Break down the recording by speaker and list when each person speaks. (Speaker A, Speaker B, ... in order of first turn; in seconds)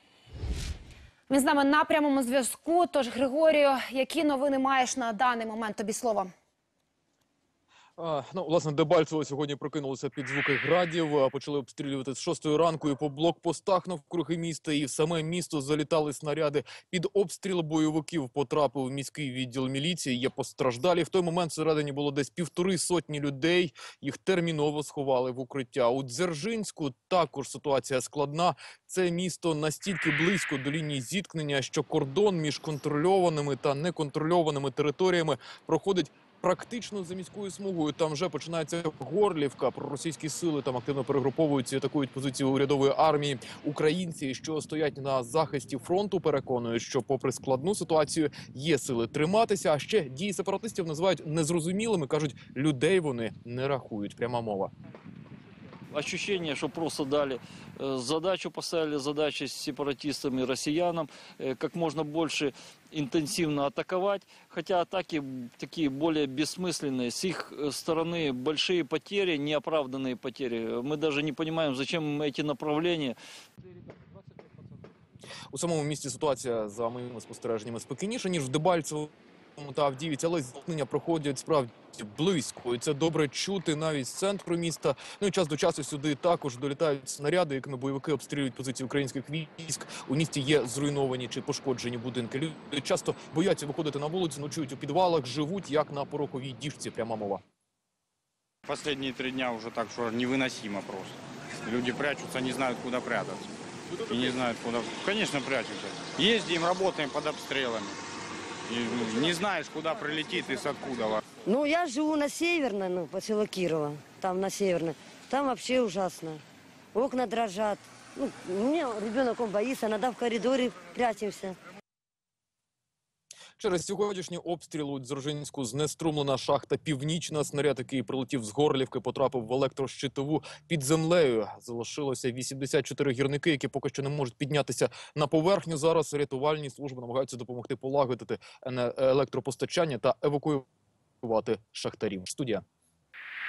Speaker A: 1.3-6.3
Speaker B: 8.0-54.7, 75.5-97.4, 123.6-140.6, 141.2-142.6
Speaker C: 55.9-73.2
Speaker D: 98.6-103.5, 104.1-108.0, 108.7-111.3
Speaker E: 111.4-116.4, 116.9-121.6